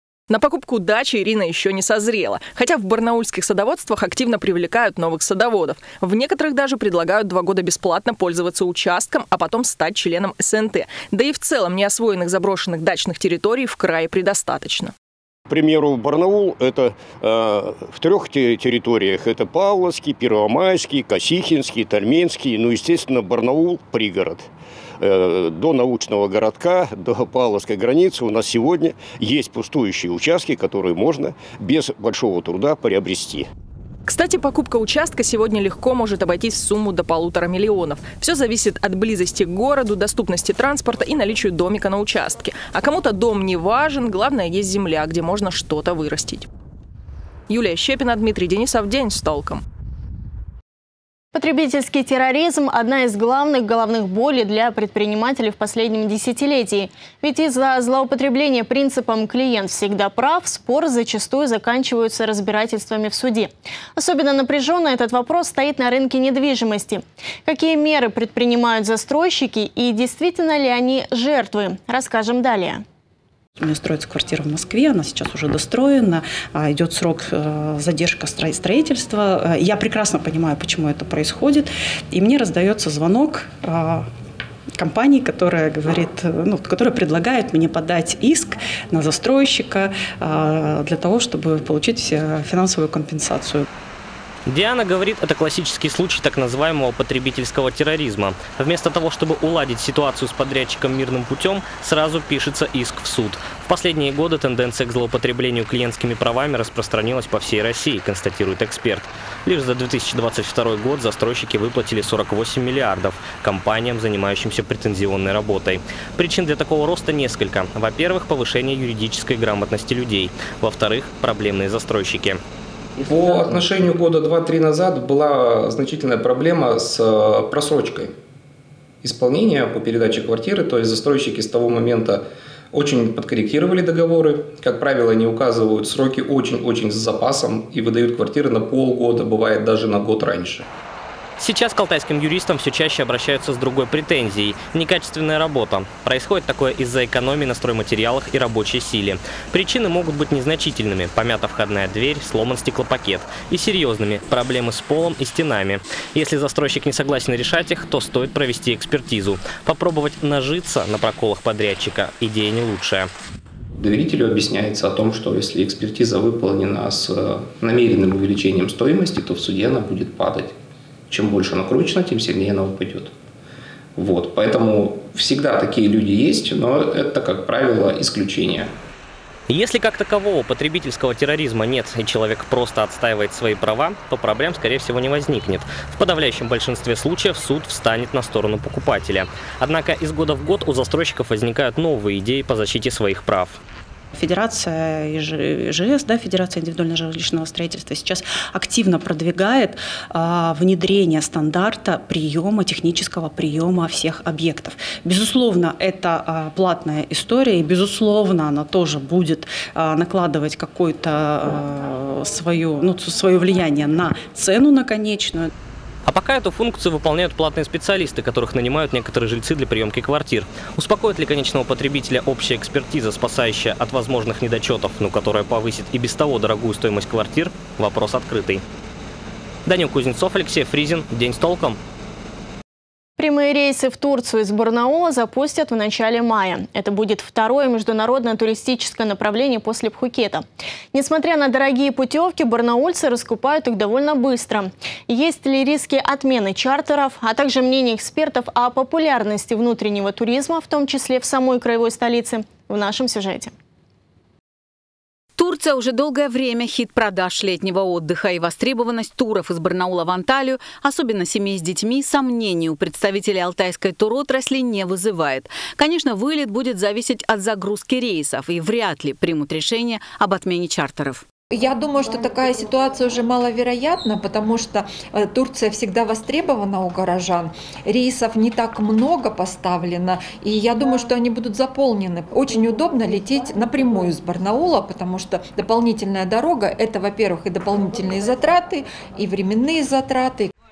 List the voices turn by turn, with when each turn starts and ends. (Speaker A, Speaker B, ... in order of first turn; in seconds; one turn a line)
Speaker A: 0.3-14.9
Speaker B: 15.5-33.5
Speaker A: 34.1-46.5
Speaker A: 47.5-49.6
Speaker C: 51.3-72.8
Speaker D: 73.6-84.1
Speaker D: 84.8-93.7
Speaker E: 94.5-122.4
Speaker F: 123.0-128.1
Speaker F: 129.0-140.7
Speaker E: 141.4-163.1
Speaker F: 163.8-170.6
Speaker F: 171.1-173.1
Speaker F: 174.0-178.7
Speaker E: 179.5-193.6
Speaker D: 194.1-215.5
Speaker E: 216.1-228.6
Speaker E: 229.7-231.8
Speaker C: 233.2-253.5
Speaker G: 255.4-271.2
Speaker H: 271.5-290.5